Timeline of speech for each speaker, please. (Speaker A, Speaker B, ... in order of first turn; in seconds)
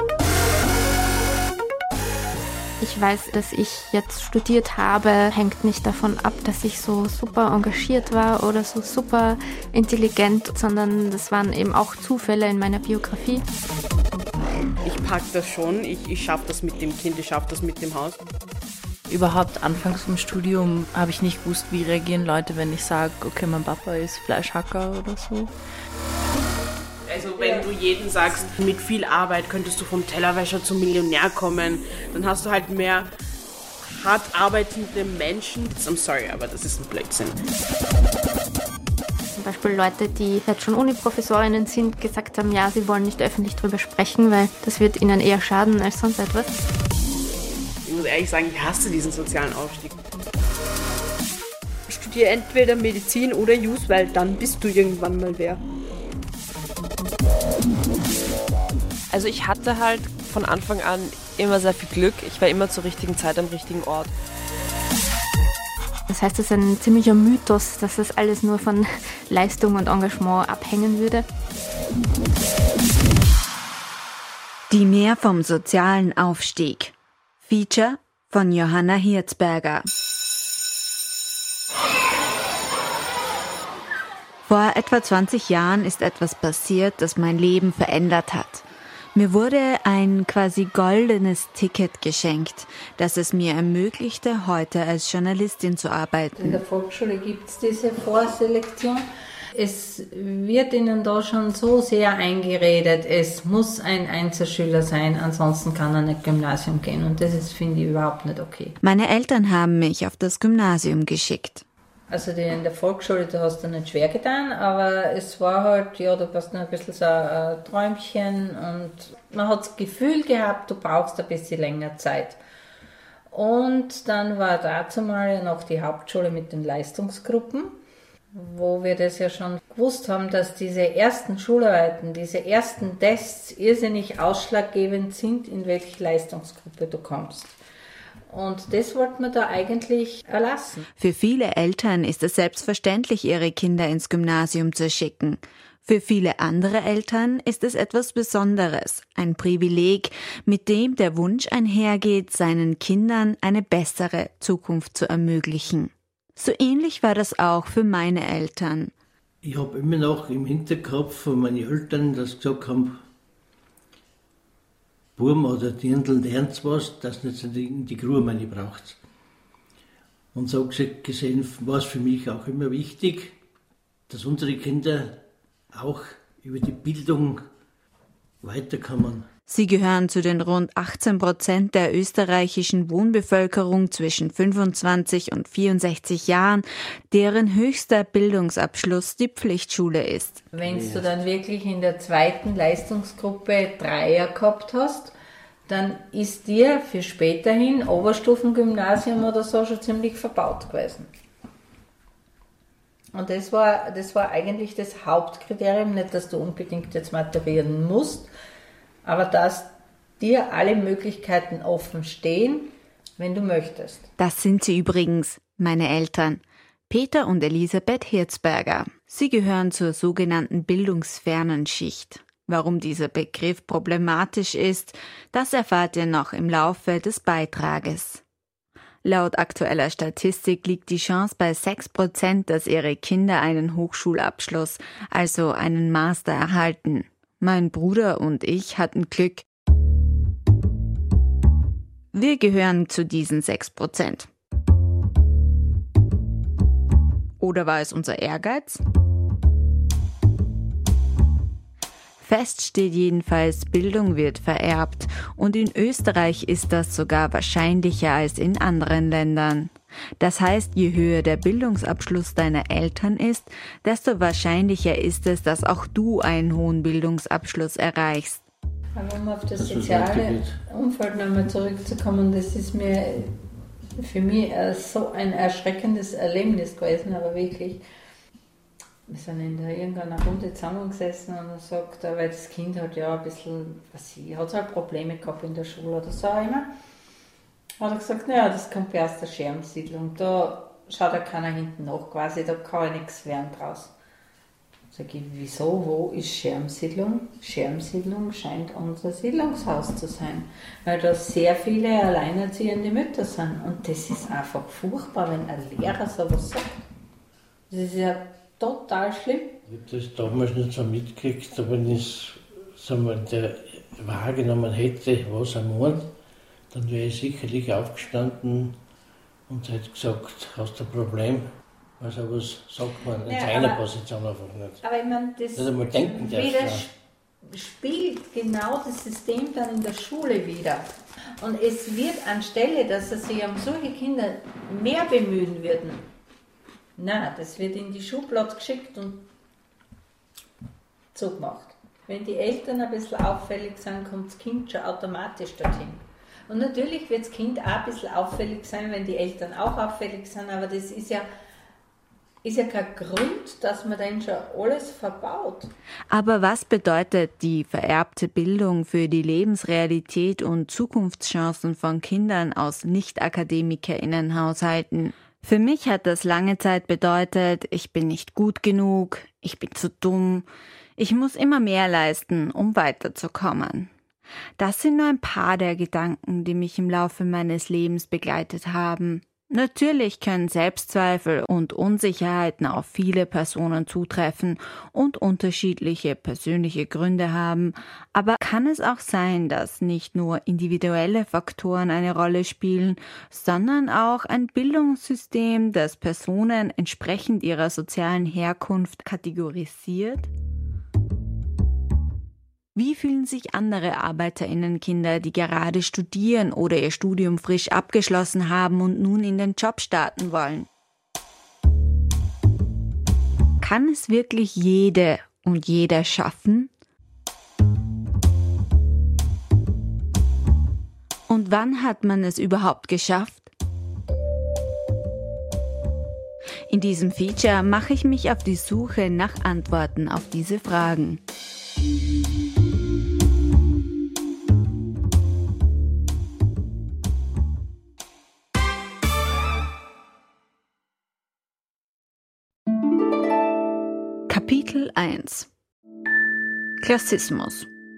Speaker A: 2.8-13.4, 39.3-46.5, 66.1-71.2
Speaker B: 14.8-18.2, 27.1-33.1, 33.8-37.4, 47.8-50.0
Speaker C: 19.1-25.5
Speaker D: 27.4-27.7, 28.2-28.5, 51.9-55.6
Speaker E: 59.1-64.1
Speaker F: 74.7-79.9, 84.4-96.6, 108.8-111.7, 141.0-158.9, 179.5-190.4, 214.2-228.2, 229.0-239.4, 242.1-244.3, 247.4-248.8, 252.2-268.4, 356.1-373.9, 374.6-400.3, 402.7-410.7, 413.6-416.7, 421.3-423.5, 426.7-431.2, 444.3-445.5, 446.8-447.7
Speaker G: 96.4-99.0, 99.6-108.8, 112.1-122.4, 123.3-127.8, 128.3-137.5, 138.3-140.9, 190.5-195.1, 195.7-201.1, 203.1-208.3, 209.0-214.1, 268.9-273.4, 274.0-277.8, 279.1-286.7, 287.8-293.9, 294.9-306.8, 307.7-309.6, 323.2-323.8, 324.8-330.9, 331.4-336.1, 337.0-339.3, 341.1-351.3, 352.4-355.7
Speaker H: 159.4-163.0, 165.2-169.0, 170.3-173.4, 174.1-177.4, 178.4-179.3, 190.6-191.1, 269.5-270.6, 309.7-316.1, 316.7-318.8, 319.5-321.5, 322.0-324.8, 325.5-326.9